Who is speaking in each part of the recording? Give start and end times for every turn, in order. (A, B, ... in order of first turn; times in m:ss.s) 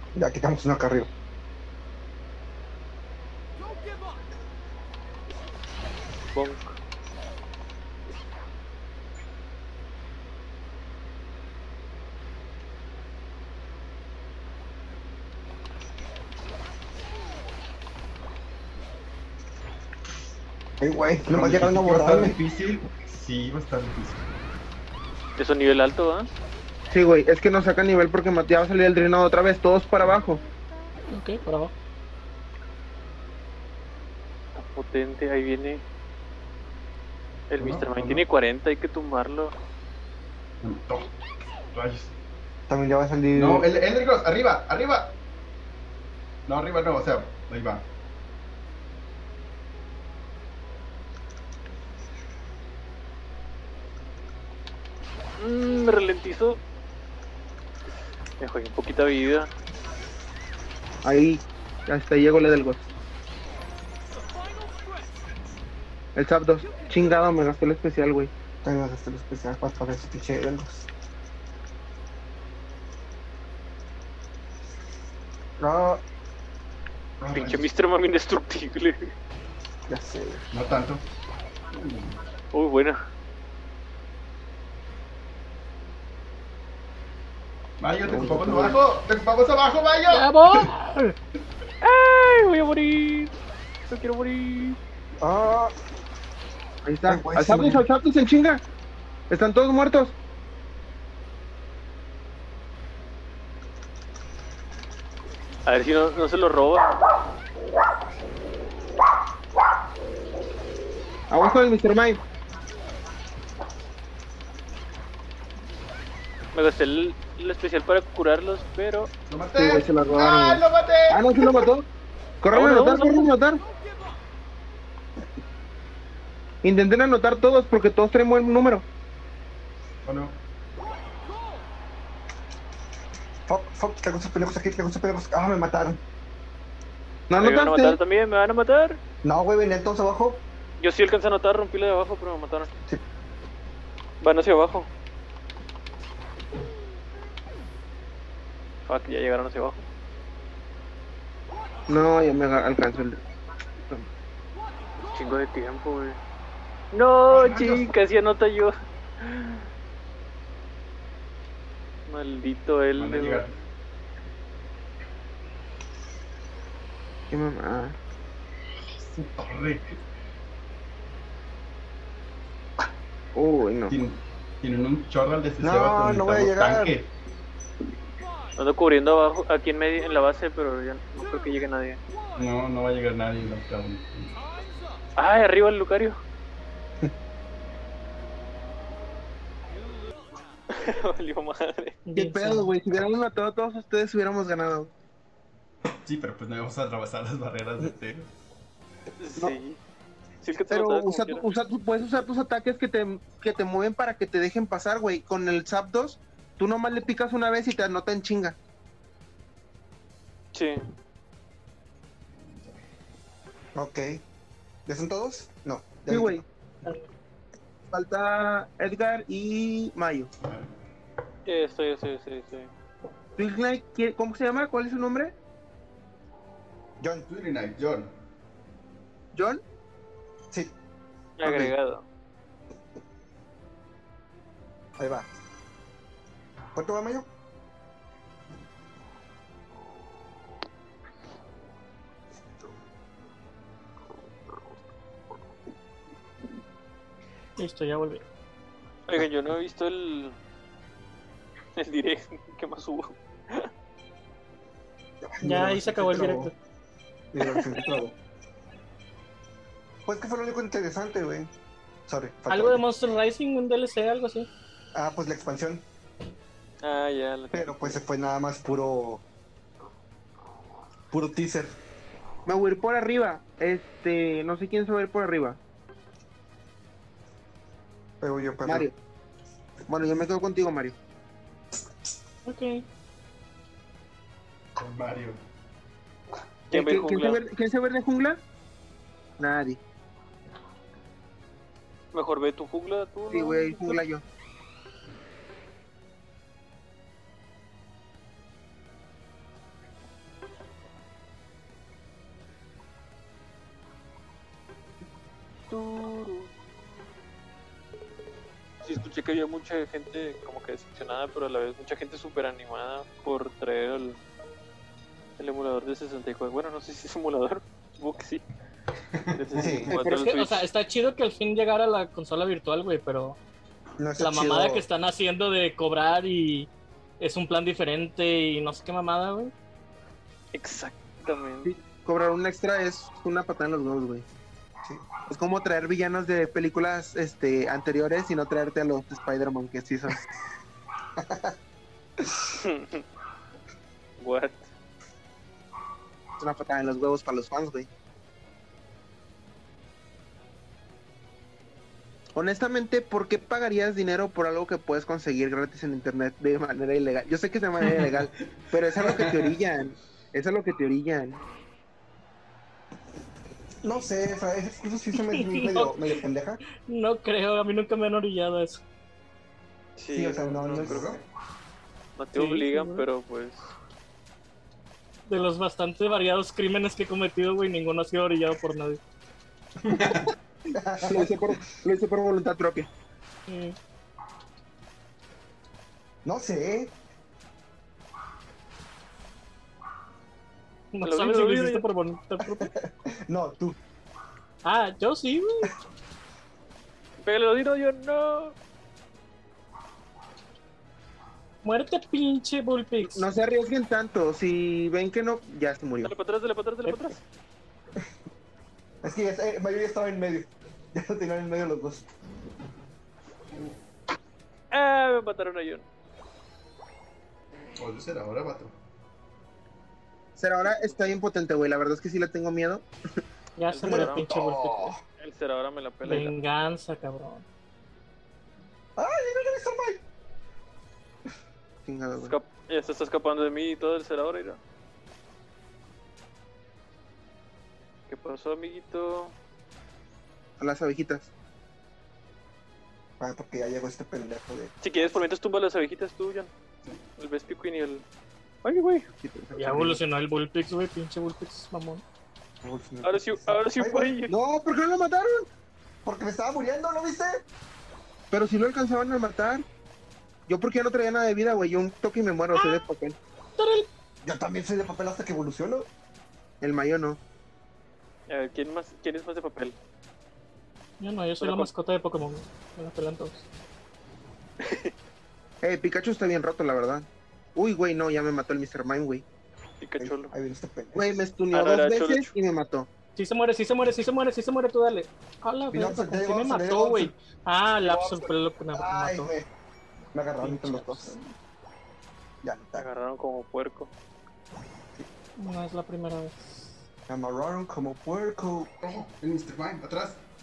0:00.1-0:01.1 A
0:06.3-0:06.8 B
0:20.8-0:22.4 A
0:21.3-0:24.2 C
0:25.4-0:26.3 B
0:26.9-0:30.4 D
0:31.1-0:31.7 E
0:34.5-0:35.8 B
0:37.5-0:39.5 B
0:37.6-0:38.2 C
0:40.6-0:41.1 C
0:41.7-0:42.1 C
0:42.7-0:43.7 A
0:43.4-0:45.2 C
0:46.4-0:47.8 C
0:55.4-0:56.6 B
0:58.4-0:59.5 B
1:01.0-1:02.8 D
1:06.1-1:08.3 D
1:08.6-1:10.9 A
1:15.6-1:16.0 A
1:17.2-1:17.6 C
1:17.3-1:19.1 B
1:19.9-1:20.4 A
1:20.5-1:21.0 C
1:21.7-1:22.2 C
1:22.5-1:23.0 B
1:27.8-1:30.7 C
1:28.1-1:28.8 A
1:30.1-1:31.1 E
1:31.8-1:33.3 B
1:33.9-1:34.8 B
1:35.2-1:35.7 A
1:36.8-1:38.6 D
1:37.1-1:37.8 A
1:39.3-1:40.2 D
1:45.6-1:47.0 B
1:51.3-1:52.2 D
1:56.5-1:59.1 B
1:59.3-2:01.7 C
1:59.5-2:01.8 D
2:02.4-2:03.6 D
2:02.5-2:03.3 B
2:06.6-2:08.8 D
2:10.0-2:10.4 C
2:13.5-2:16.0 A
2:17.3-2:18.0 D
2:17.4-2:19.0 B
2:19.2-2:20.4 A
2:20.8-2:22.7 B
2:24.2-2:24.9 B
2:28.8-2:29.8 B
2:31.9-2:33.2 D
2:35.1-2:36.2 B
2:36.9-2:39.6 B
2:37.3-2:37.9 C
2:42.1-2:43.4 B
2:43.0-2:43.6 C
2:47.3-2:48.0 D
2:48.8-2:50.0 C
2:53.3-2:54.0 D
2:53.9-2:57.1 C
2:55.6-2:56.9 A
2:58.6-3:02.0 B
3:02.4-3:04.4 C
3:05.2-3:06.2 B
3:10.7-3:12.0 B
3:12.0-3:12.7 E
3:12.1-3:14.9 D
3:16.0-3:18.3 C
3:19.2-3:19.8 B
3:20.4-3:21.4 B
3:20.7-3:28.6 D
3:30.5-3:30.8 B
3:33.7-3:34.2 A
3:34.8-3:36.4 A
3:36.1-3:36.4 D
3:37.9-3:40.3 D
3:40.4-3:40.7 C
3:41.4-3:42.7 B
3:43.4-3:45.3 D
3:47.0-3:47.3 A
3:47.3-3:48.1 C
3:49.3-3:49.6 D
3:51.4-3:52.0 B
3:51.4-3:51.7 A
3:55.0-3:55.3 A
3:56.7-3:57.3 A
4:07.6-4:08.2 E
4:09.1-4:10.4 B
4:11.8-4:13.7 B
4:15.2-4:16.5 A
4:15.4-4:16.5 E
4:17.3-4:18.1 A
4:17.4-4:17.9 B
4:20.0-4:21.5 A
4:22.1-4:22.8 A
4:22.5-4:24.5 E
4:24.9-4:25.8 A
4:26.8-4:28.0 B
4:27.5-4:29.2 A
4:31.1-4:31.7 A
4:32.4-4:35.6 D
4:38.2-4:38.9 A
4:38.6-4:38.9 D
4:39.9-4:41.0 D
4:42.4-4:42.8 E
4:44.8-4:45.4 C
4:46.7-4:47.4 B
4:46.7-4:48.4 D
4:49.4-4:49.8 D
4:52.1-4:54.0 B
4:53.3-4:54.2 D
5:05.7-5:06.5 B
5:08.8-5:14.2 B
5:15.4-5:18.4 B
5:19.2-5:19.7 C
5:19.3-5:20.6 B
5:19.5-5:19.9 A
5:19.9-5:20.2 D
5:20.0-5:23.4 E
5:24.0-5:24.8 A
5:24.2-5:29.5 E
5:30.5-5:31.7 B
5:31.6-5:34.2 D
5:35.3-5:40.2 D
5:41.2-5:41.6 A
5:42.4-5:43.0 B
5:44.2-5:44.7 B
5:46.4-5:47.9 D
5:52.3-6:01.4 D
5:57.8-5:58.1 C
5:58.9-5:59.5 C
6:03.8-6:06.6 A
6:05.2-6:06.2 E
6:06.8-6:08.8 E
6:10.0-6:11.0 B
6:10.1-6:11.2 A
6:10.6-6:11.2 C
6:12.2-6:13.7 B
6:12.3-6:13.0 E
6:15.3-6:19.0 E
6:19.8-6:20.3 C
6:20.7-6:21.3 A
6:21.0-6:22.9 D
6:23.5-6:23.8 E
6:26.2-6:26.9 A
6:30.9-6:32.7 E
6:31.0-6:31.8 B
6:32.4-6:33.8 A
6:34.6-6:35.7 E
6:37.2-6:38.6 B
6:41.6-6:43.3 E
6:43.0-6:46.1 D
6:46.0-6:47.2 B
6:46.8-6:47.1 E
6:49.0-6:52.0 A
6:54.7-6:55.8 B
6:57.8-6:58.7 C
7:00.4-7:02.8 D
7:00.7-7:01.0 B
7:03.6-7:04.9 E
7:03.7-7:04.3 B
7:03.8-7:05.0 A
7:05.2-7:06.3 B
7:06.0-7:07.4 E
7:09.0-7:10.0 A
7:11.8-7:12.4 D
7:12.2-7:14.6 B
7:18.1-7:19.3 B
7:20.6-7:21.3 D
7:23.2-7:24.7 A
7:24.8-7:26.5 B
7:27.2-7:28.0 B
7:28.6-7:29.1 B
7:29.2-7:30.0 D
7:29.5-7:32.0 E
7:32.6-7:34.2 A
7:33.0-7:34.3 B
7:34.3-7:35.5 D
7:36.0-7:37.4 A
7:38.3-7:39.6 D
7:40.5-7:43.2 D
7:42.5-7:42.8 E
7:43.6-7:43.9 E
7:44.2-7:45.9 A
7:46.6-7:47.2 D
7:48.3-7:49.8 B
7:51.0-7:53.4 E
7:51.4-7:51.7 B
7:54.6-7:54.9 B
7:55.6-7:59.2 D
7:59.8-8:00.3 B
8:00.0-8:01.1 A
8:00.9-8:02.9 D
8:01.5-8:02.3 B
8:03.2-8:09.3 E
8:05.7-8:07.1 A
8:07.8-8:09.5 A
8:10.1-8:11.2 A
8:10.4-8:11.3 E
8:12.4-8:12.9 A
8:12.8-8:13.9 B
8:15.4-8:16.8 E
8:17.1-8:18.7 A
8:18.8-8:20.2 C